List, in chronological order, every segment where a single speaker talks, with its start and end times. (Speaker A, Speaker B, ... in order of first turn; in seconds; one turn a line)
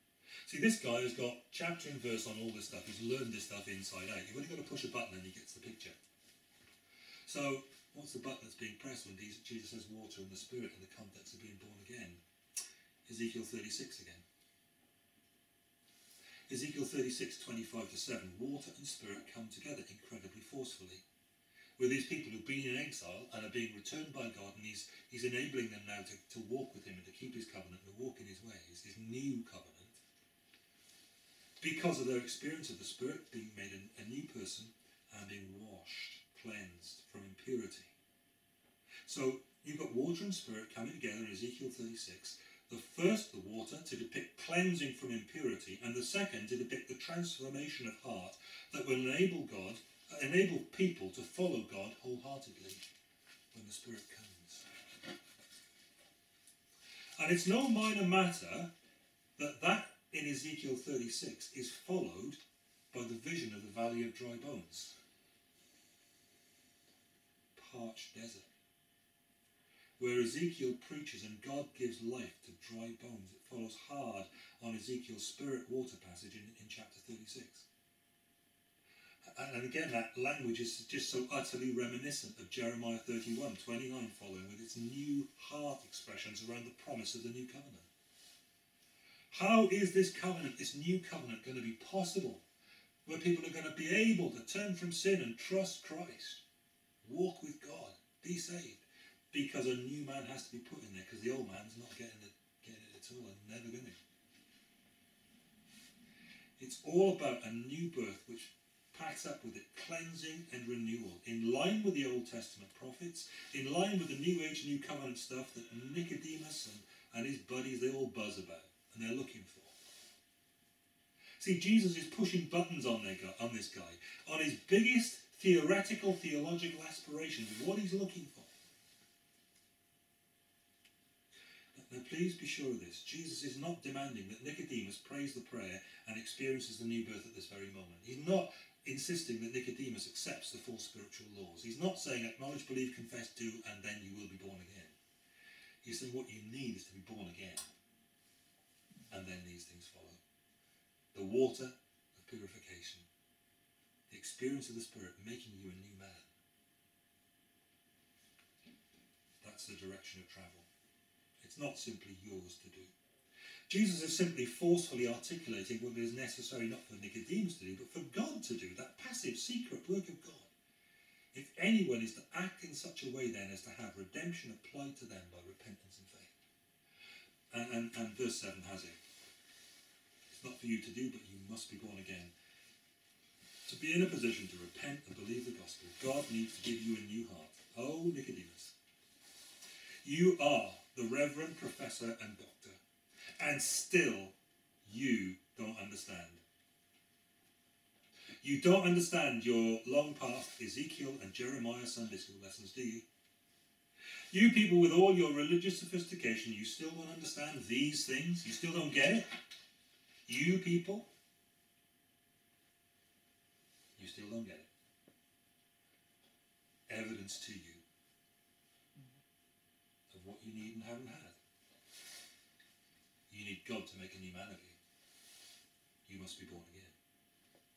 Speaker A: 0.5-6.0
Speaker A: 7.3-12.2
Speaker A: 13.1-14.2
Speaker A: 16.5-21.0
Speaker A: 21.8-30.0
Speaker A: 31.6-37.9
Speaker A: 39.0-52.9
Speaker A: 53.5-54.7
Speaker A: 57.2-58.7
Speaker A: 59.4-62.4
Speaker A: 62.9-65.0
Speaker A: 67.5-68.5
Speaker A: 70.0-77.7
Speaker A: 79.3-87.9
Speaker A: 89.3-92.4
Speaker A: 93.0-96.4
Speaker A: 97.0-104.0
Speaker A: 106.6-119.7
Speaker A: 121.4-128.5
Speaker A: 131.7-144.9
Speaker A: 145.8-147.7
Speaker A: 149.1-150.2
Speaker A: 151.1-153.1
Speaker A: 154.1-156.3
Speaker A: 159.4-160.7
Speaker A: 161.4-162.9
Speaker A: 163.7-170.5
Speaker A: 171.3-176.3
Speaker A: 177.5-179.0
Speaker A: 180.3-182.3
Speaker A: 183.7-188.8
Speaker A: 190.0-192.8
Speaker A: 193.4-196.4
Speaker A: 198.4-203.1
Speaker A: 204.3-209.3
Speaker A: 210.3-211.1
Speaker A: 214.0-214.7
Speaker A: 216.9-217.8
Speaker A: 220.1-221.4
Speaker A: 223.3-224.8
Speaker A: 226.1-226.9